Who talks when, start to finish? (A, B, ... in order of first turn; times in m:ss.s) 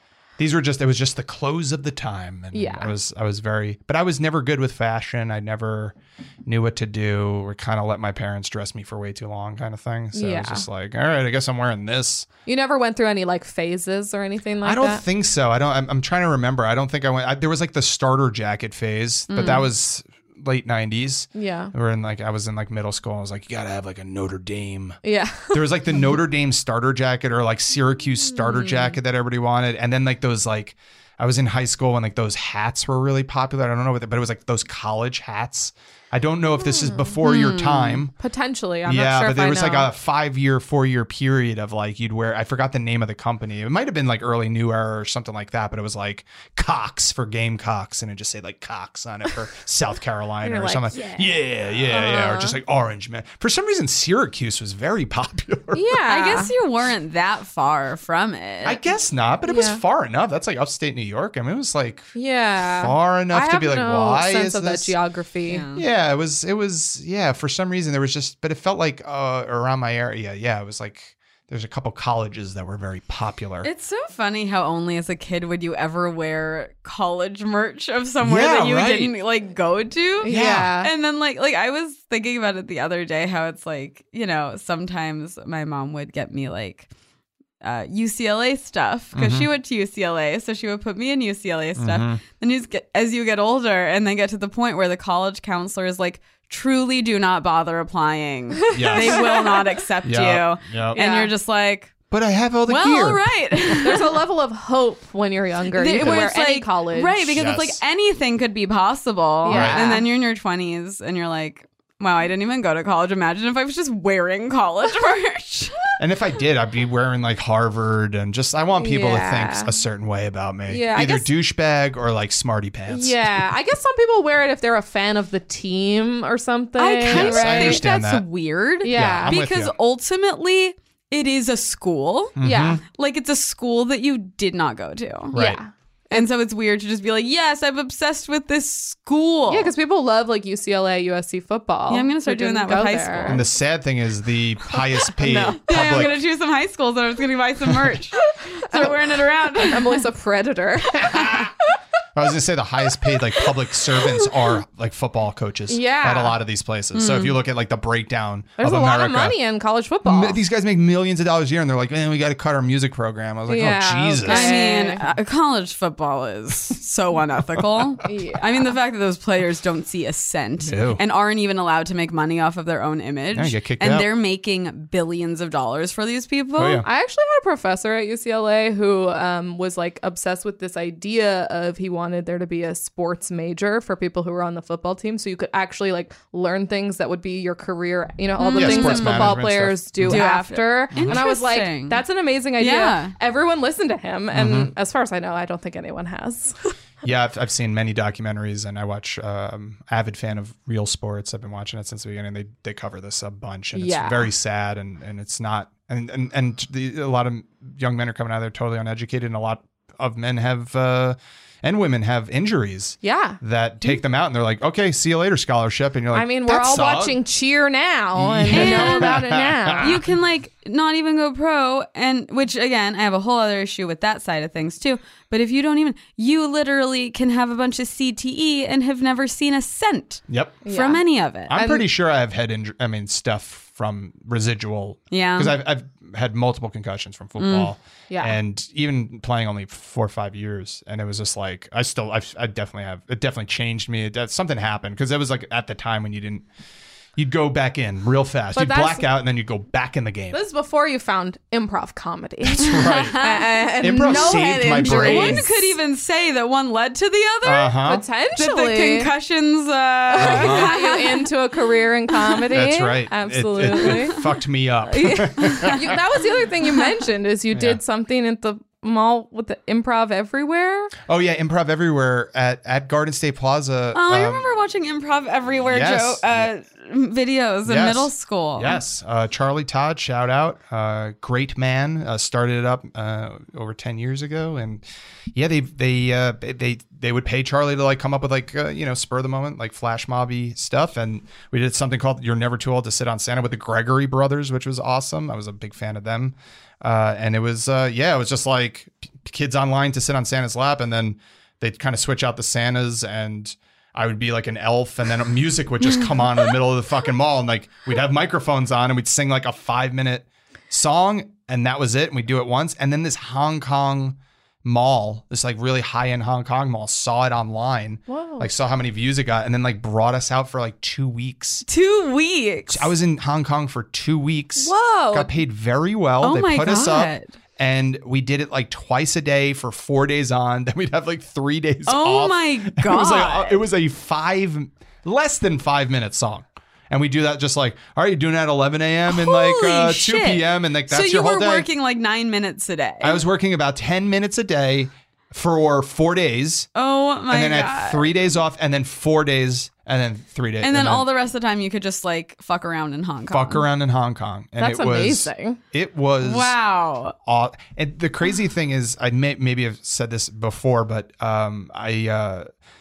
0:00.4-0:12.3 A
0:02.5-0:02.9 B
0:10.1-0:10.7 B
0:12.5-0:15.0 B
0:14.6-0:25.0 A
0:19.3-0:19.7 C
0:21.3-0:21.7 B
0:25.0-0:25.7 B
0:25.5-0:38.1 A
0:36.7-0:37.1 B
0:37.2-0:38.0 C
0:38.2-0:39.9 B
0:38.9-0:56.0 A
0:50.4-0:52.6 B
0:55.7-0:56.5 B
0:56.1-0:58.8 C
0:58.6-1:05.0 A
0:59.5-0:59.8 B
1:02.2-1:05.6 B
1:05.5-1:05.8 C
1:05.7-1:13.7 A
1:13.6-1:26.9 C
1:18.2-1:19.1 A
1:20.2-1:20.9 B
1:20.3-1:20.8 A
1:27.6-1:41.9 C
1:29.2-1:29.5 A
1:31.8-1:32.2 A
1:38.7-1:39.3 A
1:38.8-1:39.6 B
1:40.0-1:41.0 A
1:40.9-1:41.3 B
1:42.1-1:43.3 A
1:42.7-1:44.2 C
1:43.8-1:47.3 B
1:45.7-1:55.9 C
1:47.3-1:47.8 A
1:49.4-1:50.0 B
1:49.5-1:49.8 A
1:56.0-2:03.4 A
1:58.8-1:59.7 B
2:00.7-2:01.3 B
2:02.9-2:07.8 B
2:06.8-2:15.4 C
2:07.1-2:08.2 A
2:08.8-2:09.3 B
2:08.9-2:09.7 A
2:12.4-2:12.8 A
2:12.4-2:12.8 B
2:15.3-2:15.6 A
2:15.3-2:16.3 B
2:16.1-2:19.7 C
2:19.5-2:23.4 B
2:21.9-2:23.4 C
2:23.3-2:26.2 A
2:25.2-2:25.8 B
2:25.7-2:30.0 C
2:27.7-2:28.0 A
2:28.2-2:29.0 B
2:29.5-2:31.5 B
2:31.1-2:31.5 A
2:32.2-2:39.4 A
2:35.7-2:36.4 B
2:36.9-2:37.4 C
2:38.6-2:40.4 B
2:40.0-2:44.6 A
2:43.5-2:45.1 B
2:44.2-2:56.8 C
2:48.0-2:48.7 B
2:50.6-2:51.0 A
2:53.3-2:54.1 A
2:56.6-2:56.9 A
2:56.8-3:16.7 B
3:08.4-3:09.4 C
3:08.6-3:10.2 A
3:10.0-3:12.0 C
3:10.9-3:11.2 A
3:12.6-3:13.1 C
3:14.3-3:14.7 A
3:17.0-3:37.2 A
3:23.7-3:24.3 B
3:33.0-3:33.4 B
3:36.1-3:40.0 B
3:38.2-3:40.0 A
3:38.5-3:39.2 C
3:39.8-3:51.6 C
3:50.3-3:50.6 A
3:50.6-3:51.9 B
3:51.5-4:06.5 A
3:55.1-3:55.6 C
3:57.4-3:57.7 C
3:58.1-3:58.4 B
4:07.2-4:10.4 A
4:08.6-4:09.1 B
4:10.3-4:15.5 B
4:12.5-4:13.2 A
4:12.7-4:17.8 C
4:13.8-4:15.7 A
4:17.4-4:18.0 A
4:17.8-4:19.1 B
4:18.4-4:21.3 C
4:20.1-4:24.2 B
4:20.2-4:20.8 A
4:22.5-4:26.0 A
4:23.7-4:24.2 C
4:25.0-4:30.9 B
4:25.1-4:25.8 C
4:27.5-4:27.8 A
4:31.1-4:34.5 A
4:33.9-4:38.8 C
4:35.7-4:36.5 A
4:37.6-5:21.7 A
5:18.1-5:18.5 B
5:21.7-5:22.9 C
5:22.7-5:41.7 A
5:24.6-5:25.3 B
5:26.2-5:27.3 C
5:31.9-5:33.6 C
5:39.1-5:43.2 C
5:43.0-5:46.7 A
5:46.8-5:48.1 C
5:47.3-5:51.1 A
5:50.6-5:53.7 C
5:53.3-5:56.6 A
5:54.6-5:55.6 B
5:56.2-5:57.2 C
5:57.2-6:02.5 A